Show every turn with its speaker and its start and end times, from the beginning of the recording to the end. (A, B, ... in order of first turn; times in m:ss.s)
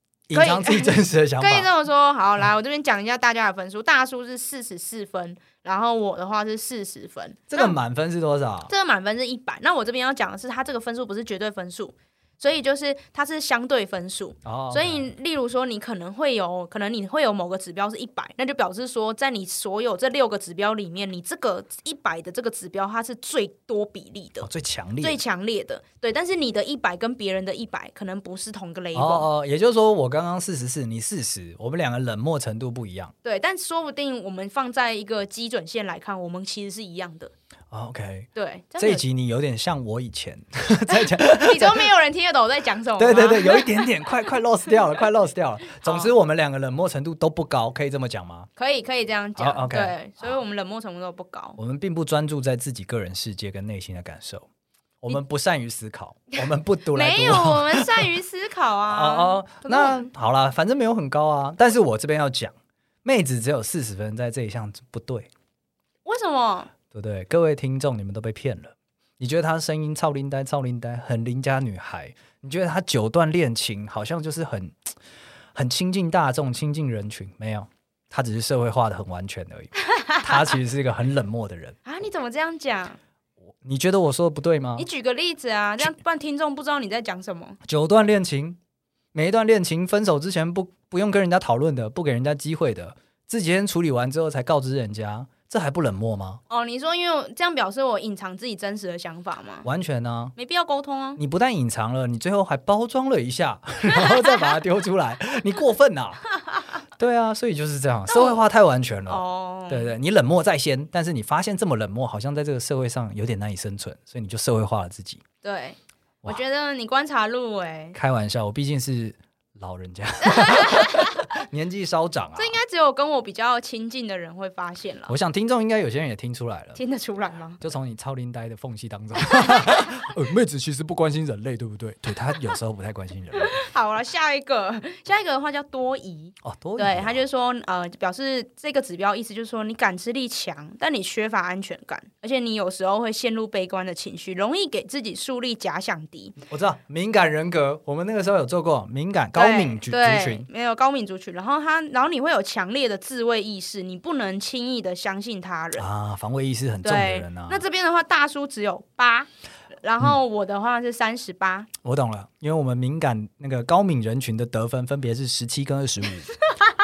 0:00.3-0:01.7 A
0:00.3-0:07.8 B
0:07.5-0:08.7 A
0:08.7-0:24.5 B
0:14.4-0:15.1 A
0:24.4-0:25.2 A
0:25.0-0:29.3 B
0:28.9-0:33.1 A
0:33.2-0:37.3 B
0:37.7-0:41.9 A
0:38.3-0:39.0 B
0:40.9-0:44.1 B
0:43.0-0:48.5 A
0:45.8-0:46.1 B
0:48.6-0:51.6 B
0:49.4-0:50.0 A
0:51.6-0:54.4 A
0:55.0-0:58.1 A
0:56.9-1:00.1 B
0:58.9-1:05.3 A
1:06.0-1:06.7 B
1:06.9-1:14.9 A
1:15.5-1:21.8 A
1:19.9-1:20.6 B
1:21.8-1:23.0 B
1:23.6-1:24.8 A
1:24.8-1:27.6 B
1:27.6-1:28.6 A
1:29.1-1:36.4 A
1:36.5-1:39.6 B
1:39.6-1:40.3 A
1:40.4-1:41.2 B
1:41.2-1:46.3 A
1:43.9-1:44.5 B
1:47.0-1:55.2 A
1:48.1-1:48.4 B
1:49.1-1:49.9 B
1:55.4-1:58.0 B
1:57.9-2:02.6 A
2:00.2-2:01.2 B
2:02.4-2:05.1 B
2:05.1-2:06.8 A
2:06.8-2:07.6 B
2:07.6-2:13.6 A
2:09.3-2:09.9 B
2:13.4-2:26.4 B
2:16.4-2:17.2 A
2:26.4-2:30.4 A
2:29.3-2:35.8 B
2:35.8-2:37.6 A
2:36.8-2:39.3 B
2:39.8-2:41.7 B
2:41.8-2:46.3 A